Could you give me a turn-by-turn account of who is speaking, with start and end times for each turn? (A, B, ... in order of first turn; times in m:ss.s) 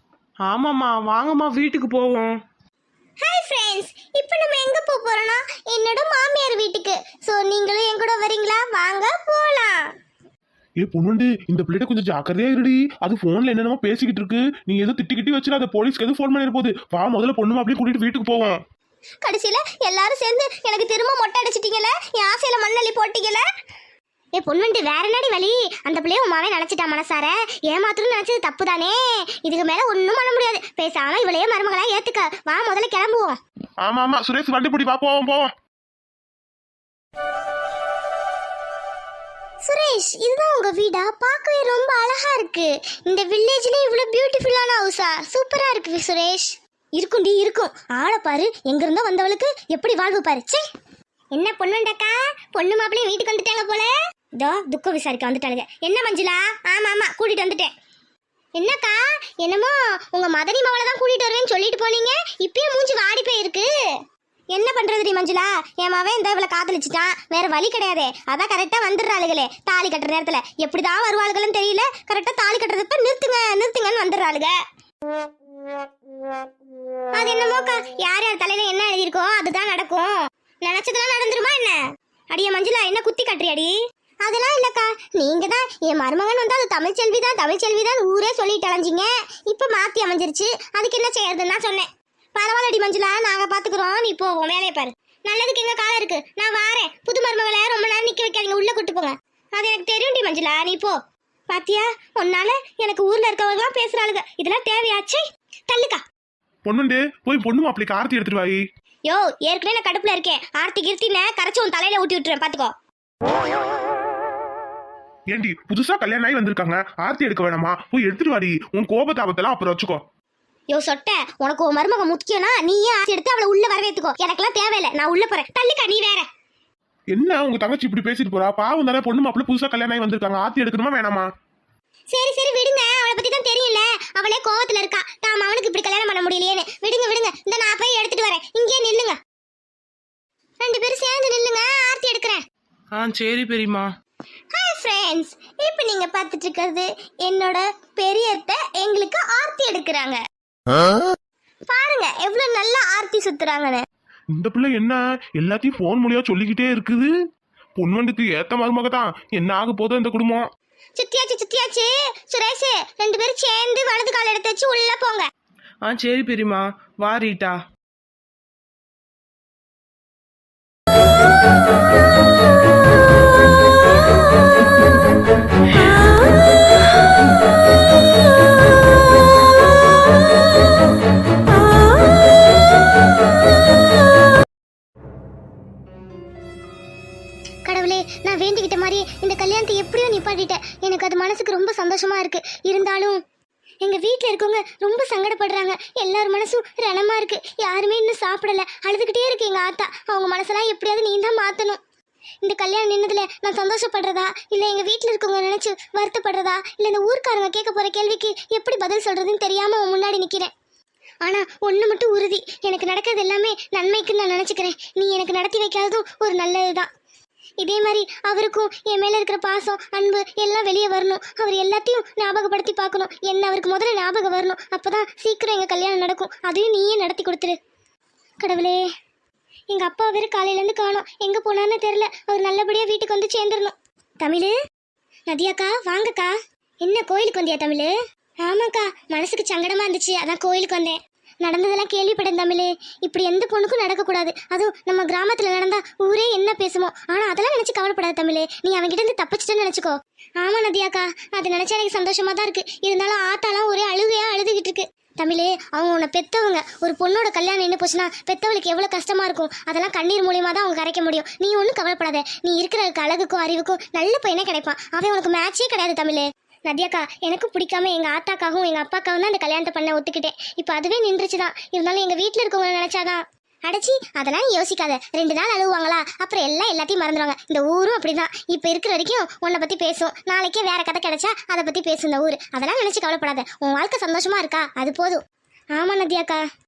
0:00.5-0:02.4 A
0:03.2-0:09.8 B
0:10.8-0:18.6 C
0:19.2-0:23.5 B
0:24.4-0:33.4 B
0:33.8-0:35.5 C
0:39.6-0:50.6 B
0:51.3-0:57.7 B
0:58.6-1:03.7 B
1:04.5-1:14.6 B
1:17.2-1:41.0 B
1:41.5-1:46.0 B
1:46.6-1:48.6 C
1:49.0-1:52.7 B
1:55.3-2:00.0 C
2:00.7-2:06.3 B
2:07.1-2:11.3 C
2:12.1-2:19.2 B
2:20.6-2:22.4 B
2:22.9-2:23.9 A
2:24.5-2:30.2 B
2:31.7-2:33.8 B
2:34.4-2:37.1 C
2:37.8-2:40.5 C
2:41.0-2:45.3 B
2:45.8-2:47.6 A
3:07.7-3:13.2 B
3:13.8-3:21.8 B
3:22.4-3:30.5 B
3:31.2-3:36.9 B
3:37.6-3:47.6 B
3:48.4-3:48.8 B
3:49.7-3:54.5 B
3:55.3-3:57.9 B
3:58.4-4:45.2 B
4:45.7-4:46.4 B